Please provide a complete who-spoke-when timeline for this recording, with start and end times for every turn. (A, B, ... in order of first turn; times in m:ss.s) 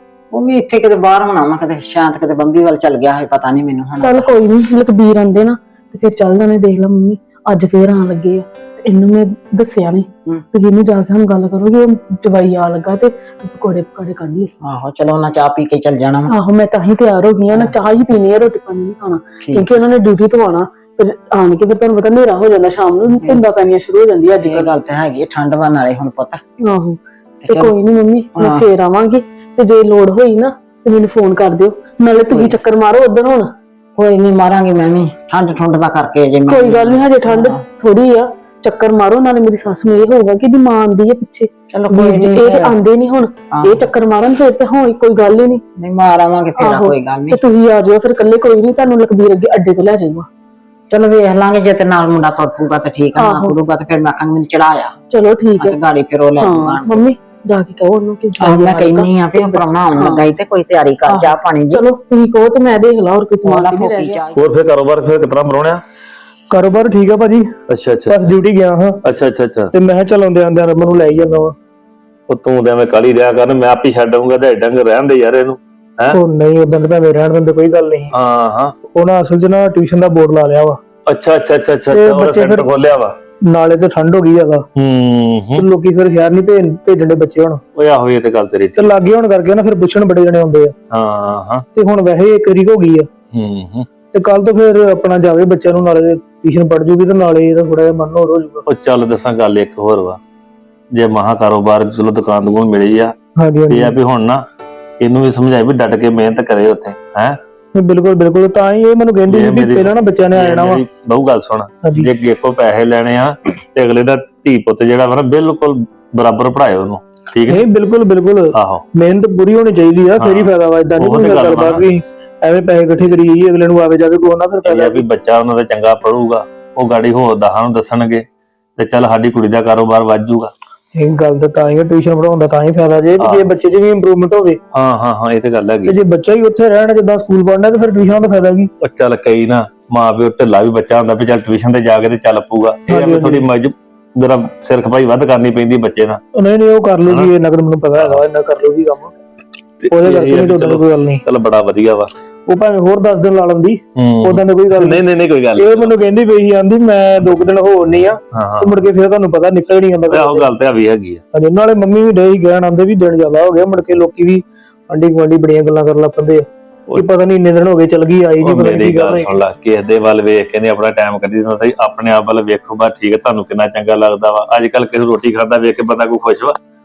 0:00.3-0:04.4 A
0:04.0-0:14.5 B
0:14.6-0:16.3 A
0:16.3-0:24.7 B
0:19.4-0:19.7 A
0:24.4-0:26.4 A
0:26.6-0:33.5 B
0:27.4-0:27.7 A
0:28.4-0:28.6 A
0:32.3-0:32.6 A
0:34.0-0:37.6 A
0:36.5-0:45.6 B
0:41.7-0:42.8 A
0:43.5-0:43.8 A
0:45.8-0:47.4 A
0:46.6-0:50.3 B
0:50.9-0:54.9 A
0:53.2-0:53.6 B
0:55.1-0:55.8 B
0:55.6-0:57.1 A
0:56.4-1:00.2 B
0:58.4-1:01.8 A
1:01.1-1:04.2 B
1:03.4-1:04.4 A
1:04.3-1:05.8 C
1:06.5-1:07.5 D
1:07.7-1:08.2 C
1:08.0-1:09.0 D
1:09.0-1:09.7 C
1:09.7-1:11.5 D
1:12.3-1:16.2 C
1:16.1-1:18.2 D
1:18.1-1:18.7 C
1:18.9-1:20.8 D
1:21.1-1:23.1 C
1:21.9-1:22.7 D
1:23.4-1:24.7 D
1:24.8-1:25.6 C
1:25.5-1:27.6 D
1:27.8-1:28.9 C
1:28.7-1:30.7 D
1:30.9-1:31.6 C
1:31.7-1:33.1 D
1:33.3-1:33.9 C
1:34.1-1:38.6 D
1:38.7-1:40.2 C
1:40.9-1:43.1 C
1:43.4-1:44.0 D
1:43.7-1:44.4 C
1:45.0-1:47.4 C
1:47.7-1:50.8 D
1:49.3-1:57.6 C
1:57.4-2:05.0 D
1:58.5-1:58.8 C
2:00.2-2:01.8 C
2:04.6-2:08.2 C
2:08.8-2:10.5 C
2:10.9-2:14.6 D
2:13.2-2:13.4 C
2:14.7-2:16.0 C
2:15.8-2:18.7 D
2:18.8-2:26.2 C
2:22.9-2:23.4 D
2:26.4-2:29.1 D
2:28.0-2:28.2 C
2:29.8-2:32.1 C
2:29.9-2:31.2 D
2:32.5-2:35.0 D
2:34.0-2:35.9 C
2:35.6-2:40.5 D
2:38.3-2:38.7 C
2:40.1-2:41.2 C
2:41.3-2:49.3 D
2:48.4-2:56.6 C